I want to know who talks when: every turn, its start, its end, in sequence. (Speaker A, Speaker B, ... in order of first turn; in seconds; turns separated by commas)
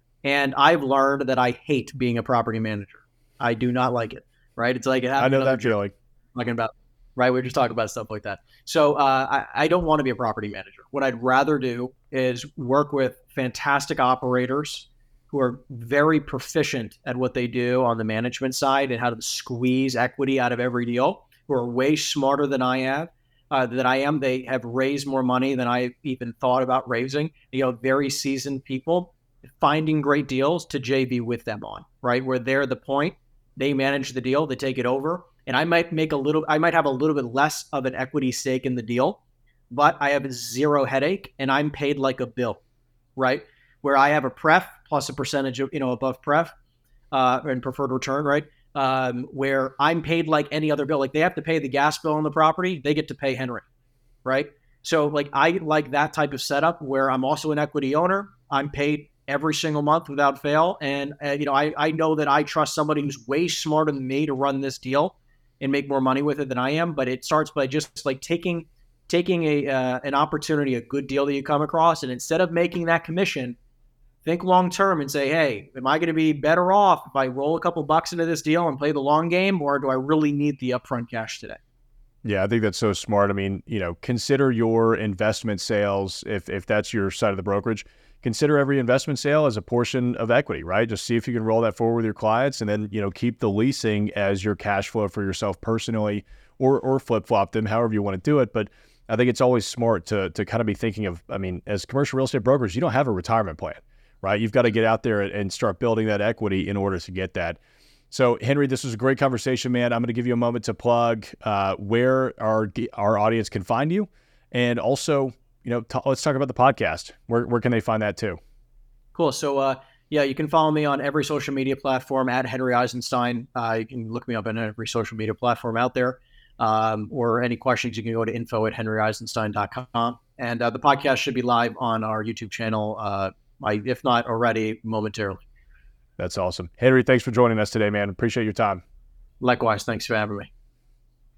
Speaker A: 0.2-5.7, Speaker B: 5.2-5.9, Speaker A: 6.3-42.6, Speaker A: 43.2-46.5, Speaker A: 47.1-53.6, Speaker A: 54.2-73.6, Speaker A: 74.2-81.6, Speaker B: 82.2-107.6, Speaker B: 108.1-118.4, Speaker A: 119.1-135.4, Speaker B: 136.2-138.8, Speaker A: 139.4-140.5